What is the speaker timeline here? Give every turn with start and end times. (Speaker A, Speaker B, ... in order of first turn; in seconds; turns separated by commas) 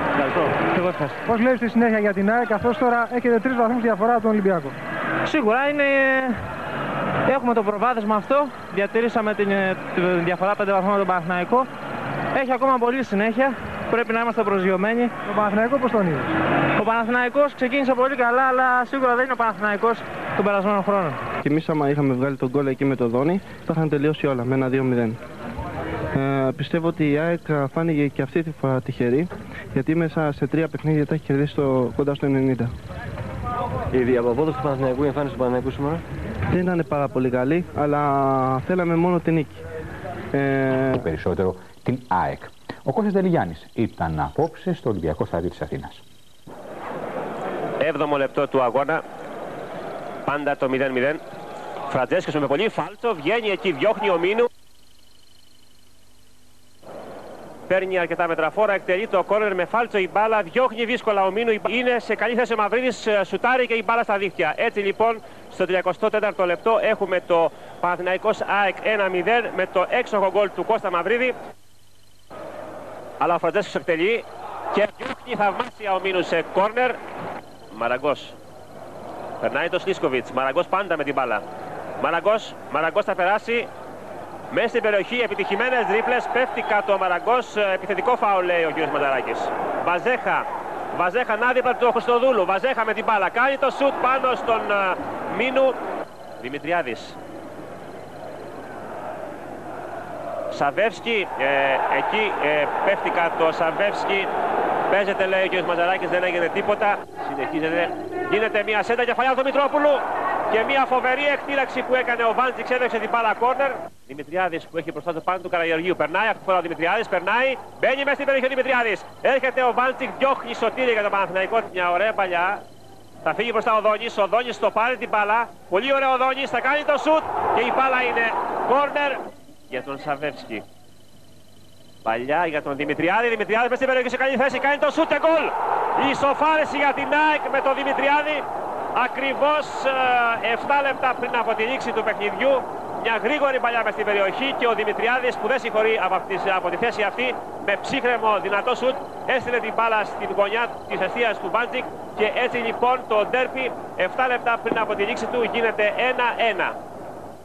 Speaker A: 0.2-0.5, Speaker B: 0.6-1.2, Speaker C: 1.3-4.7, Speaker B: 5.2-6.3, Speaker B: 7.3-11.7, Speaker B: 12.3-15.1, Speaker C: 15.2-16.3, Speaker B: 16.8-21.2, Speaker D: 21.4-25.2, Speaker D: 26.1-32.7, Speaker A: 33.9-36.0, Speaker D: 36.5-39.6, Speaker D: 40.3-41.1, Speaker E: 41.0-46.0, Speaker F: 47.8-49.0, Speaker F: 50.3-51.2, Speaker F: 51.9-54.5, Speaker F: 57.7-71.3, Speaker F: 73.2-77.0, Speaker F: 77.7-78.3, Speaker F: 79.4-81.4, Speaker F: 82.0-83.7, Speaker F: 84.5-95.7, Speaker F: 96.4-97.2, Speaker F: 100.5-104.3, Speaker F: 104.9-122.6, Speaker F: 123.2-130.6, Speaker F: 132.0-138.4, Speaker F: 138.9-156.7